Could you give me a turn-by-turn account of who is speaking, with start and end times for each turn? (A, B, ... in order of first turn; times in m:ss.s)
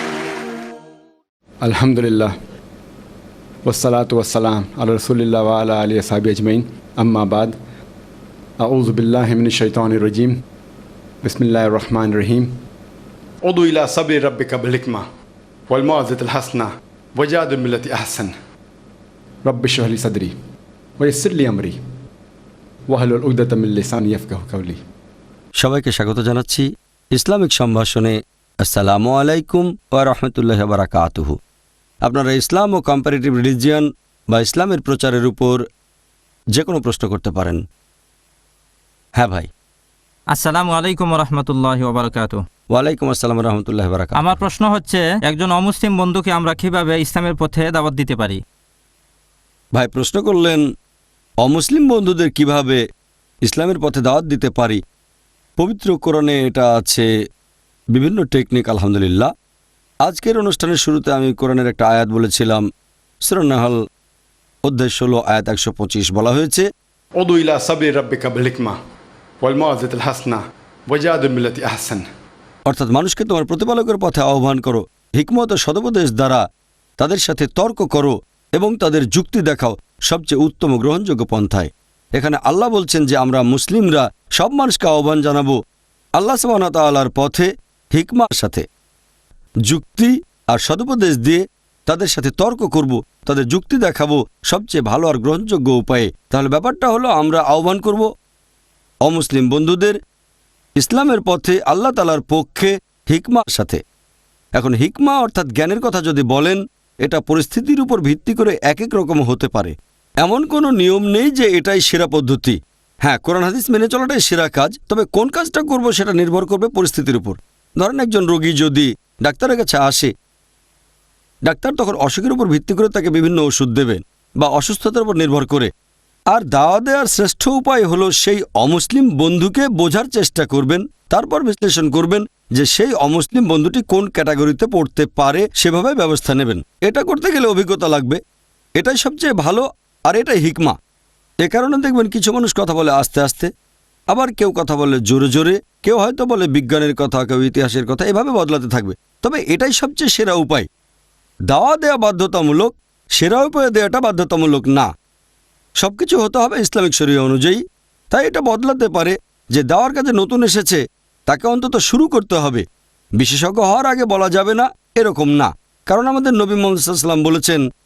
0:01.6-0:02.3 A
0:03.6-0:07.6 A
0:08.6-0:10.4 A
0:11.2-0:12.5 A
0:13.4-0:15.0 A
0:15.7-0:18.3 A
0:19.4-0:20.3 A
0:21.0-0:21.8 A
0:22.9-0:24.8 A
0:25.6-0:31.4 B
0:32.0-0:35.6 B
0:36.5-0:37.6 B
0:39.2-0:39.5 B
0:40.3-0:42.4 C
0:42.7-0:44.4 B
0:44.2-0:48.4 C
0:49.8-0:50.6 B
0:51.4-0:52.8 B
0:53.4-0:54.8 B
0:55.6-0:57.1 B
0:57.9-0:59.3 B
1:00.0-1:02.6 B
1:03.2-1:03.8 B
1:04.6-1:06.7 B
1:07.2-1:08.8 A
1:09.4-1:12.0 A
1:12.7-1:16.4 B
1:17.0-1:25.6 B
1:26.2-1:28.6 B
1:29.7-1:38.1 B
1:39.0-1:40.0 B
1:40.8-1:43.8 B
1:44.6-2:00.1 B
2:01.4-2:05.7 B
2:06.3-2:18.2 B
2:18.8-2:20.8 B
2:21.4-2:23.5 B
2:24.1-2:30.7 B
2:31.5-2:34.9 B
2:35.8-2:42.6 B
2:43.2-2:47.6 B